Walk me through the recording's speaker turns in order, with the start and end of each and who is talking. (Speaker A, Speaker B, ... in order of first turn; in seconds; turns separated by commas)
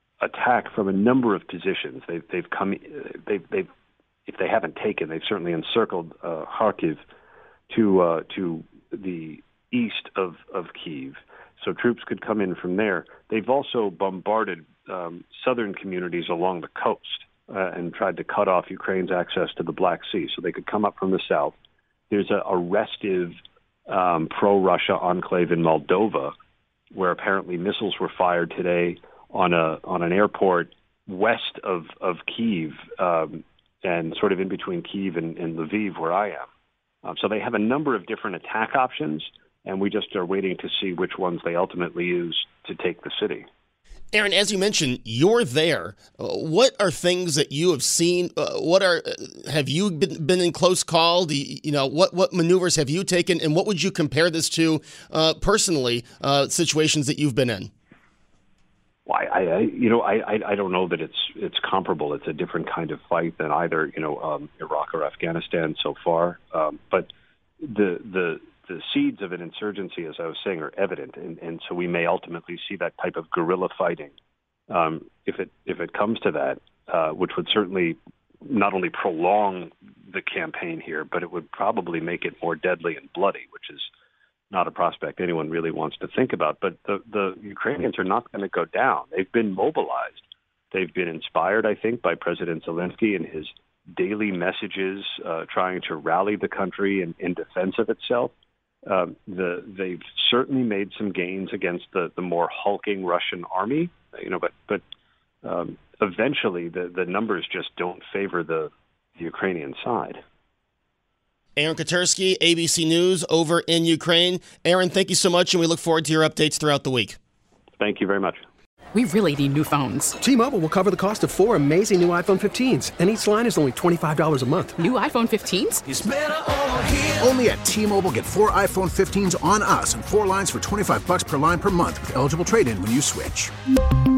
Speaker A: 0.2-3.7, Speaker A: 4.2-7.0, Speaker A: 7.7-21.5, Speaker A: 22.1-23.4, Speaker A: 23.9-26.3, Speaker A: 26.9-36.5, Speaker A: 37.0-43.5, Speaker B: 44.1-57.7, Speaker A: 59.0-67.1, Speaker A: 67.6-74.1, Speaker A: 74.7-83.9, Speaker A: 84.5-98.3, Speaker A: 98.8-104.8, Speaker A: 105.4-110.2, Speaker B: 111.6-117.2, Speaker A: 117.8-118.4, Speaker C: 118.9-120.2, Speaker D: 120.2-124.8, Speaker C: 124.8-125.8, Speaker E: 126.0-126.2, Speaker D: 126.9-127.2, Speaker E: 127.2-133.5